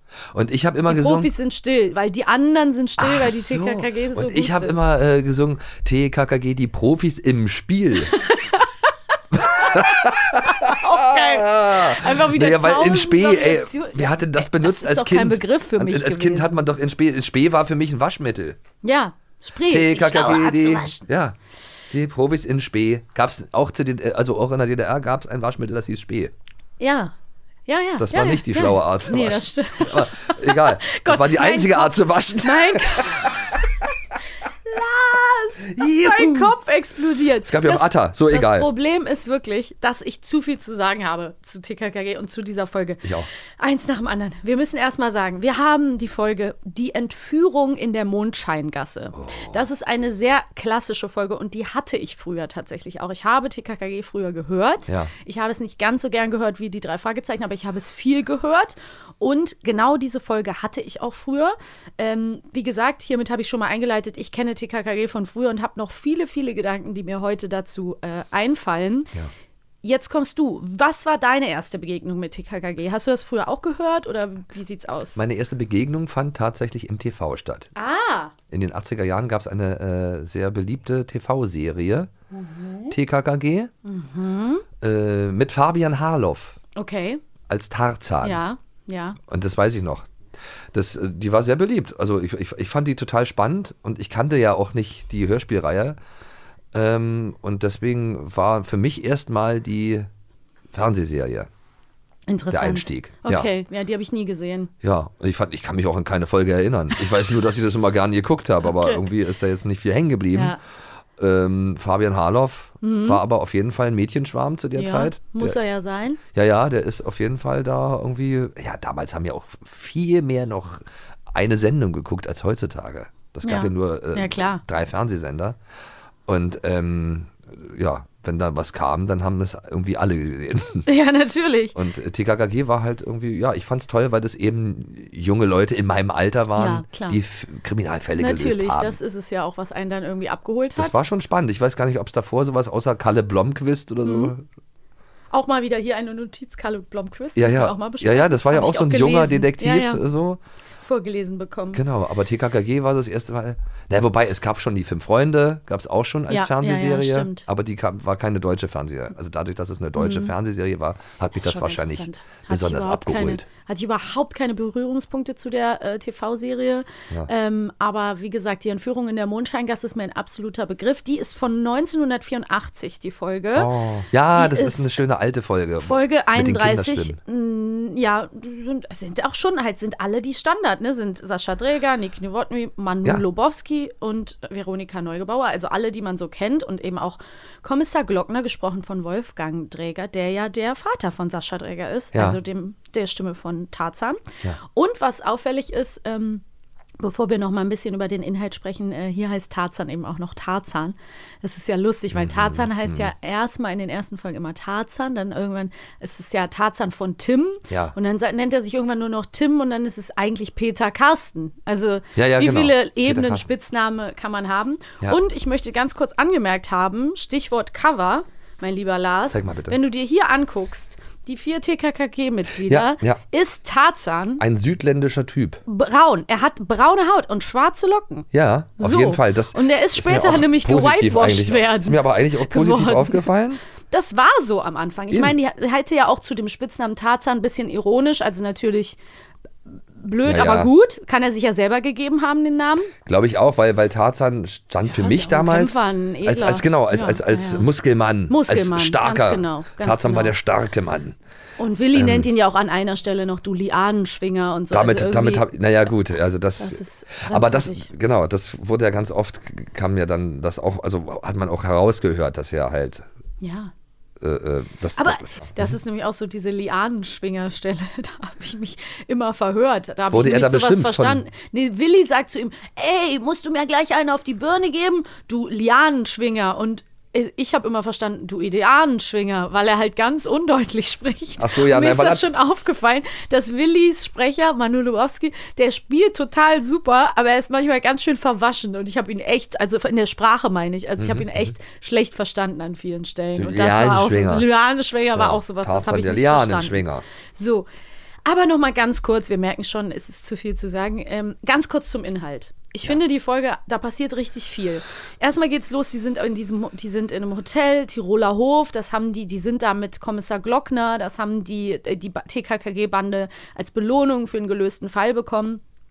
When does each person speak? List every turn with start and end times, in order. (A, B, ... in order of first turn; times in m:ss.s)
0:00.3-0:01.3 A
0:00.9-0:04.8 B
0:03.0-0:08.1 A
0:08.3-0:08.6 B
0:09.3-0:18.6 A
0:10.5-0:16.5 B
0:18.8-0:21.1 B
0:19.7-0:21.4 A
0:21.9-0:26.3 A
0:26.8-0:27.1 B
0:27.7-0:33.3 B
0:28.0-0:33.3 A
0:34.6-0:43.0 B
0:35.7-0:36.5 A
0:37.4-0:38.7 A
0:43.6-1:09.1 B
0:49.1-0:49.6 A
1:09.8-1:15.2 B
1:15.2-1:17.7 A
1:17.8-1:18.3 B
1:18.5-1:22.1 A
1:22.4-1:22.9 B
1:22.9-1:23.7 A
1:23.8-1:24.6 B
1:24.8-1:26.6 A
1:26.7-1:27.2 B
1:27.5-1:28.4 A
1:28.2-1:29.2 B
1:29.3-1:30.1 A
1:30.7-1:36.0 A
1:36.7-1:40.1 A
1:40.7-1:41.5 A
1:42.3-1:44.7 B
1:42.5-1:43.5 A
1:44.8-1:50.6 A
1:48.6-1:49.0 B
1:51.2-1:55.6 A
1:52.8-1:53.2 B
1:54.7-1:56.2 B
1:56.3-2:05.6 A
2:03.4-2:04.6 B
2:06.3-2:10.8 A
2:10.8-2:11.7 B
2:11.7-2:19.0 A
2:16.6-2:17.2 B
2:18.2-2:20.9 B
2:20.8-2:24.4 A
2:24.0-2:24.3 B
2:25.3-2:30.0 B
2:27.4-2:30.4 A
2:30.8-2:31.8 B
2:31.7-2:43.4 A
2:36.3-2:37.4 B
2:40.0-2:40.3 B
2:41.4-2:53.7 B
2:53.5-2:57.2 A
2:54.3-2:54.9 B
2:55.8-3:16.4 B
3:12.1-3:12.4 A
3:17.0-3:44.4 B
3:22.1-3:23.1 A
3:27.7-3:27.9 A
3:32.2-3:33.5 A
3:39.3-3:39.8 A
3:42.6-3:43.2 A
3:44.4-3:45.6 A
3:45.7-3:48.3 B
3:48.3-3:53.6 A
3:48.8-3:53.3 B
3:53.9-3:59.0 B
3:59.9-4:02.9 B
4:00.2-4:00.7 A
4:03.0-4:11.2 A
4:04.9-4:07.7 B
4:08.3-4:10.3 B
4:11.6-4:15.5 B
4:11.9-4:12.3 A
4:14.7-4:23.1 A
4:16.6-4:17.9 B
4:23.4-4:23.7 B
4:24.2-4:25.7 A
4:25.0-4:57.7 B
4:30.1-4:31.2 A
4:41.4-4:42.3 A
4:51.0-4:51.5 A
4:53.4-4:54.5 A
4:55.1-4:57.0 A
4:58.2-5:15.6 B